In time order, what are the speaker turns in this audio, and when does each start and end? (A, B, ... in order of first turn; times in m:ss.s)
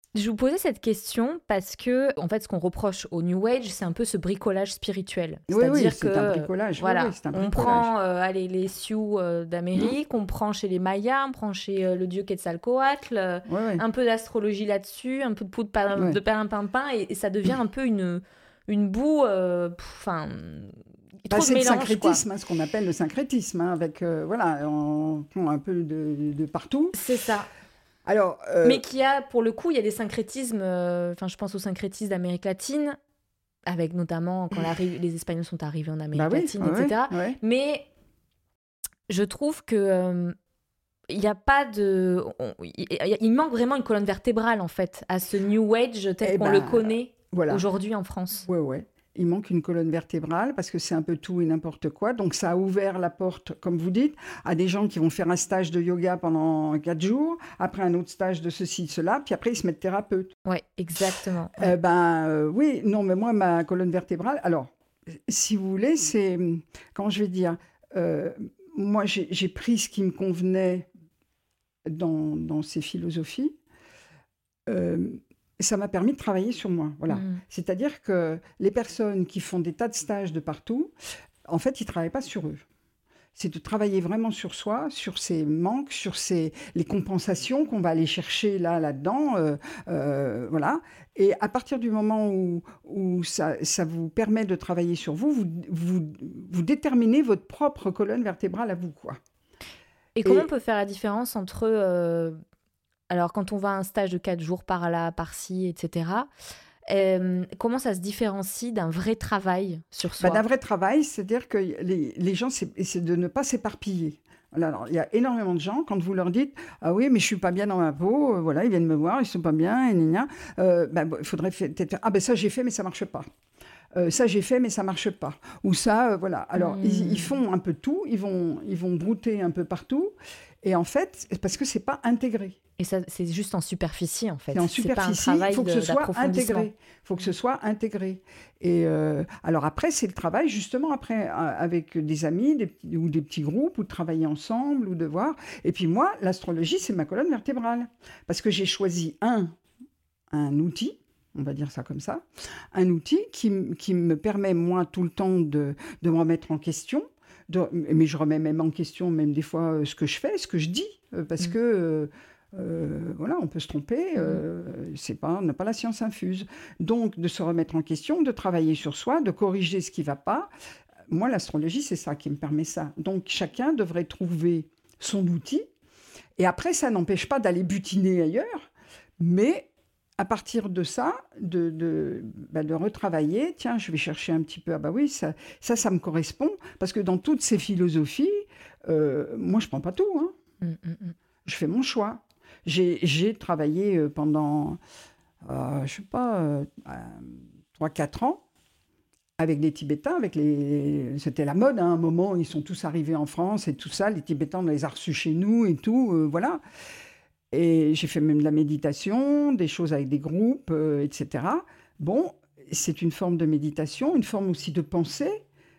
0:00.2-0:22.2 A
0:05.5-0:07.9 B
0:13.5-0:13.8 B
0:15.9-0:16.2 B
0:21.3-0:27.0 B
0:26.9-0:27.5 A
0:28.1-0:28.8 B
0:28.6-0:33.0 A
0:33.7-0:37.9 A
0:36.1-0:37.4 B
0:39.1-0:40.4 A
0:41.1-0:48.5 A
0:46.2-0:47.6 B
0:48.5-1:00.3 B
1:00.5-1:01.7 A
1:01.6-1:04.7 B
1:05.3-1:10.9 B
1:11.9-1:13.6 B
1:14.7-1:20.9 B
1:17.1-1:17.4 A
1:21.5-1:22.6 B
1:23.4-1:39.2 B
1:40.2-1:42.4 A
1:43.1-1:46.3 A
1:46.9-1:50.4 A
1:50.2-2:03.3 B
2:04.0-2:12.6 B
2:06.6-2:07.4 A
2:12.8-2:16.7 A
2:14.5-2:29.6 B
2:30.3-2:50.5 B
2:44.2-2:44.4 A
2:51.1-2:55.6 B
2:56.4-3:10.3 B
3:10.6-3:11.2 A
3:11.4-3:14.8 B
3:15.4-3:18.4 B
3:19.4-3:26.6 B
3:27.5-3:35.4 B